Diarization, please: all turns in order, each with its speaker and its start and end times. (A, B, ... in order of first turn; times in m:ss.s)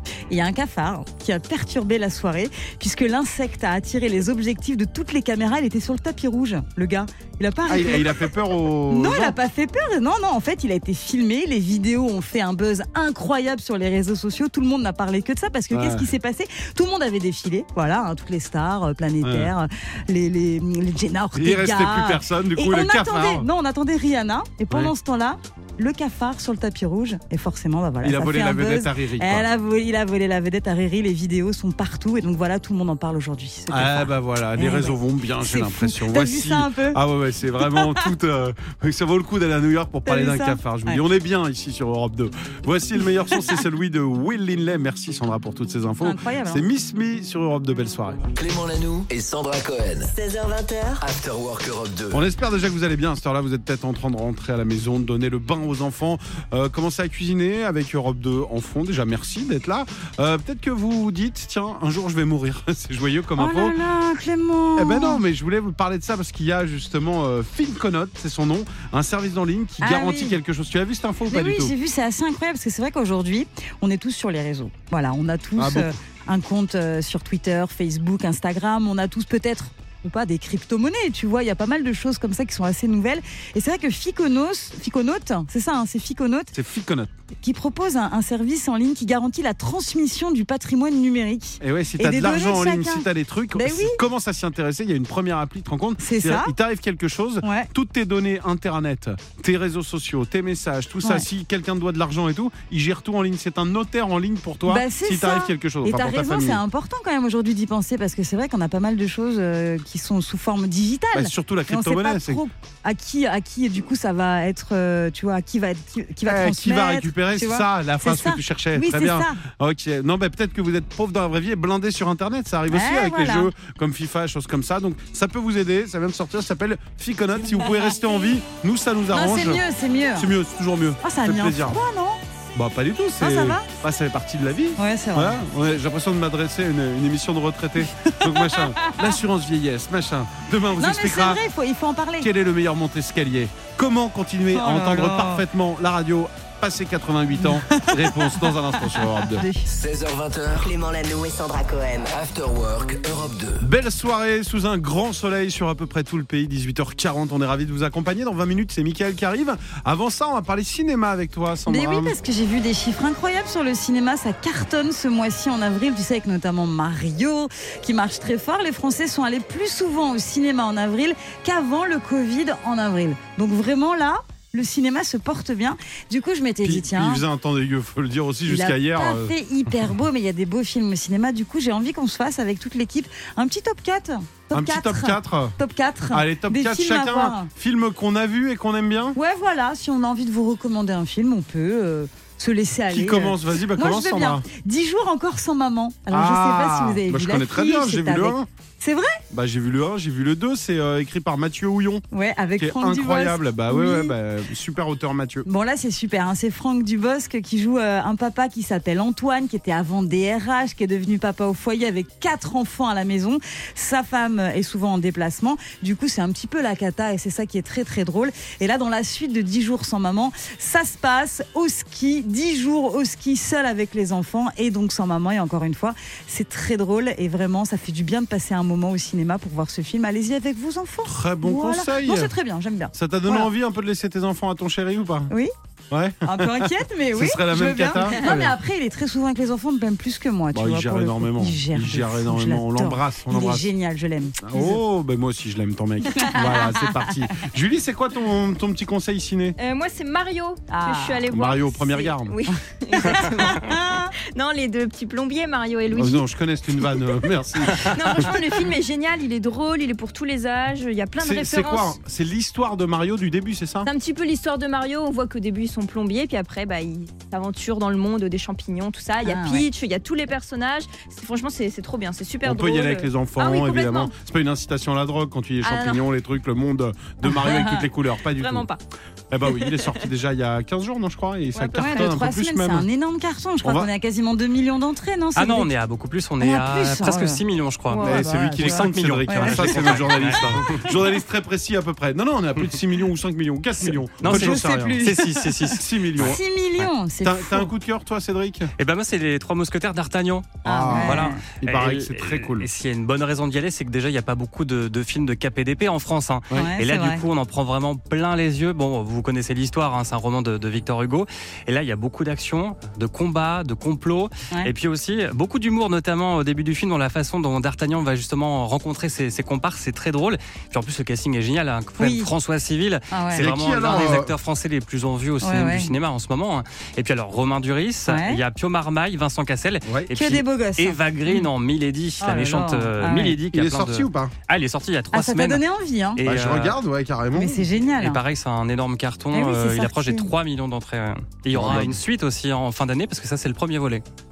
0:00.3-0:08.2 A
0:07.7-0:09.4 B
0:08.9-0:37.0 A
0:15.7-0:16.1 B
0:19.2-0:19.5 B
0:21.3-0:23.5 B
0:28.0-0:29.5 B
0:33.7-0:48.3 B
0:37.6-0:38.1 A
0:40.0-0:41.0 A
0:46.0-0:46.6 A
0:48.4-0:50.1 C
0:50.0-0:51.0 D
0:51.0-0:52.2 C
0:52.1-1:03.8 B
1:03.4-1:05.2 A
1:04.8-1:11.7 B
1:09.8-1:10.4 A
1:11.3-1:26.5 A
1:15.6-1:15.9 B
1:26.5-1:27.1 B
1:27.4-1:34.0 A
1:31.6-1:46.6 B
1:36.0-1:36.5 A
1:37.4-1:37.7 A
1:44.7-1:59.4 A
1:51.1-1:52.4 B
1:56.2-2:09.6 B
2:02.7-2:03.5 A
2:07.6-2:07.9 A
2:09.1-2:10.3 A
2:10.1-2:11.8 B
2:11.0-2:12.2 A
2:12.5-2:21.4 B
2:13.2-2:13.7 A
2:14.8-2:15.4 A
2:18.0-2:19.1 A
2:20.8-2:22.3 A
2:22.2-2:29.4 B
2:24.5-2:25.4 A
2:27.4-2:29.7 A
2:29.6-2:30.7 C
2:30.6-2:32.1 D
2:32.1-2:33.7 C
2:33.6-2:42.1 B
2:41.7-2:57.2 A
2:56.6-2:59.3 B
2:58.4-3:07.5 A
3:04.5-3:05.6 B
3:06.1-3:09.2 B
3:09.1-3:19.2 A
3:12.9-3:14.4 B
3:16.1-3:18.5 B
3:19.3-3:22.0 B
3:22.1-3:24.1 A
3:22.6-3:25.4 B
3:25.4-3:53.5 A
3:51.0-3:52.3 B
3:52.9-3:55.3 B
3:55.9-3:58.6 B
3:56.2-4:04.8 A
4:00.5-4:03.7 B
4:04.4-4:09.6 B
4:06.1-4:07.1 A
4:09.6-4:16.2 E
4:10.7-4:11.2 A
4:11.3-4:12.4 B
4:13.0-4:14.1 A
4:15.9-4:18.3 B
4:17.7-4:21.9 E
4:21.2-4:23.9 B
4:23.8-4:34.1 E
4:29.2-4:29.6 A
4:32.4-4:38.7 B
4:35.6-4:36.0 E
4:37.4-4:37.8 E
4:38.4-4:38.8 E
4:39.3-4:42.9 B
4:39.4-4:39.9 E
4:41.5-4:42.1 E
4:41.8-4:45.7 A
4:43.6-4:43.9 B
4:45.3-4:50.9 F
4:46.4-4:49.9 A
4:48.0-4:55.1 B
4:54.2-4:56.9 F
4:54.2-4:57.7 A
4:55.8-4:56.4 B
4:57.2-4:58.7 B
4:58.8-5:35.6 F
5:00.6-5:02.7 B
5:00.6-5:01.4 A
5:06.5-5:07.2 A
5:22.0-5:22.3 A
5:23.1-5:24.0 A
5:23.3-5:24.3 B
5:25.4-5:25.9 A
5:28.1-5:28.4 A
5:30.1-5:31.5 A
5:32.2-5:33.4 A
5:33.5-5:34.3 B
5:35.1-5:36.2 A
5:36.2-5:36.8 F
5:36.2-5:37.7 B
5:37.3-5:38.2 A
5:37.9-5:44.0 F
5:39.3-5:40.3 A
5:41.5-5:42.0 B